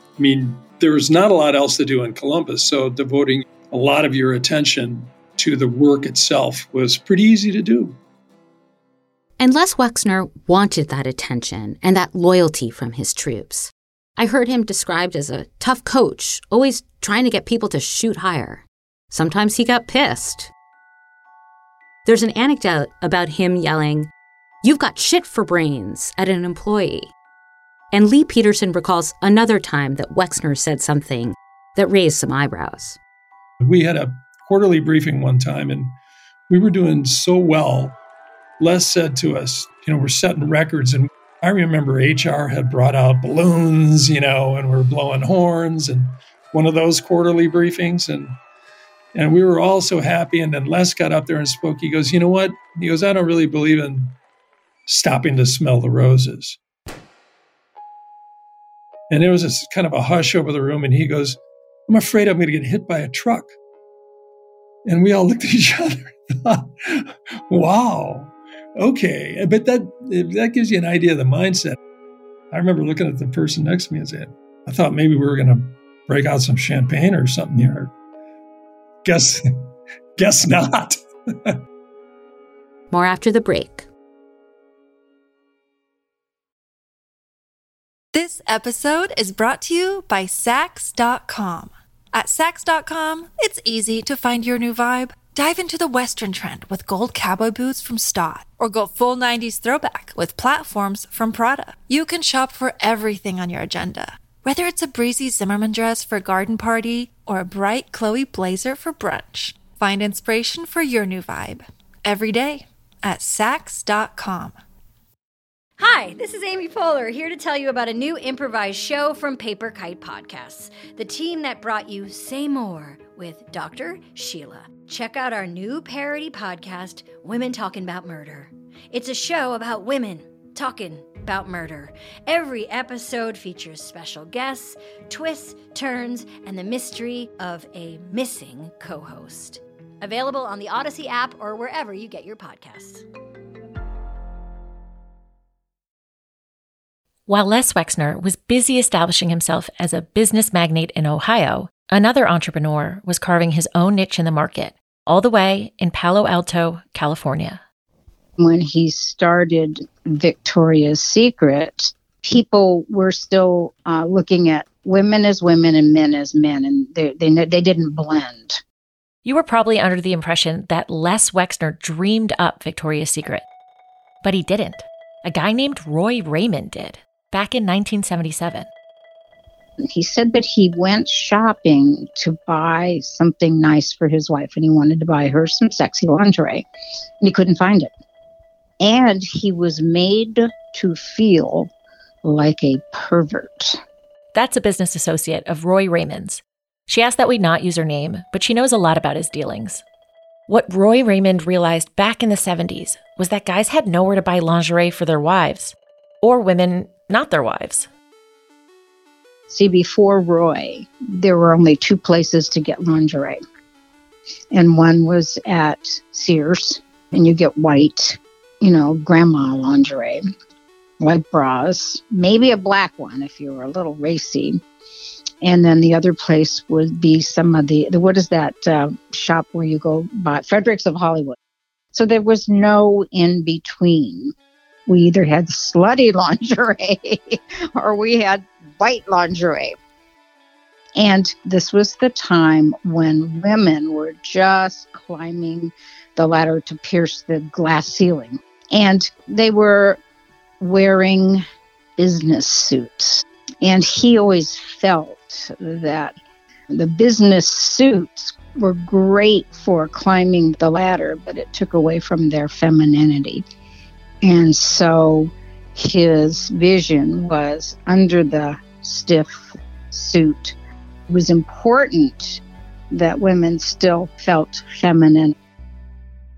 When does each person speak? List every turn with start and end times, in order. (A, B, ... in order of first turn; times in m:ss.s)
0:00.2-0:08.0 A
0:09.4-0:20.5 B
0:22.0-0:24.1 B
0:24.6-0:27.1 B
0:27.9-0:33.0 B
0:33.6-0:35.9 A
0:36.5-0:38.0 A
0:38.6-0:48.4 A
0:49.2-0:54.1 A
0:54.9-0:56.6 A
0:59.1-1:03.5 A
1:04.8-1:11.8 A
1:12.5-1:17.9 A
1:19.0-1:19.6 A
1:20.2-1:21.6 A
1:22.9-1:23.9 B
1:28.1-1:54.6 C
1:55.8-2:23.0 D
2:27.3-2:37.6 E
2:38.4-2:48.6 F
2:49.2-2:53.4 E
2:54.2-2:58.7 E
2:59.8-3:06.6 F
3:07.2-3:07.9 F
3:08.8-3:11.7 F
3:12.2-3:13.8 F
3:14.3-3:19.8 E
3:20.5-3:27.9 E
3:29.5-3:33.4 F
3:34.5-3:40.2 F
3:41.0-3:44.6 F
3:45.4-3:51.4 F
3:51.9-3:54.3 F
3:54.9-3:59.8 F
4:01.0-4:10.0 F
4:10.6-4:11.4 F
4:12.0-4:16.2 F
4:16.7-4:23.4 F
4:24.2-4:30.6 F
4:31.1-4:32.4 F
4:32.9-4:35.4 F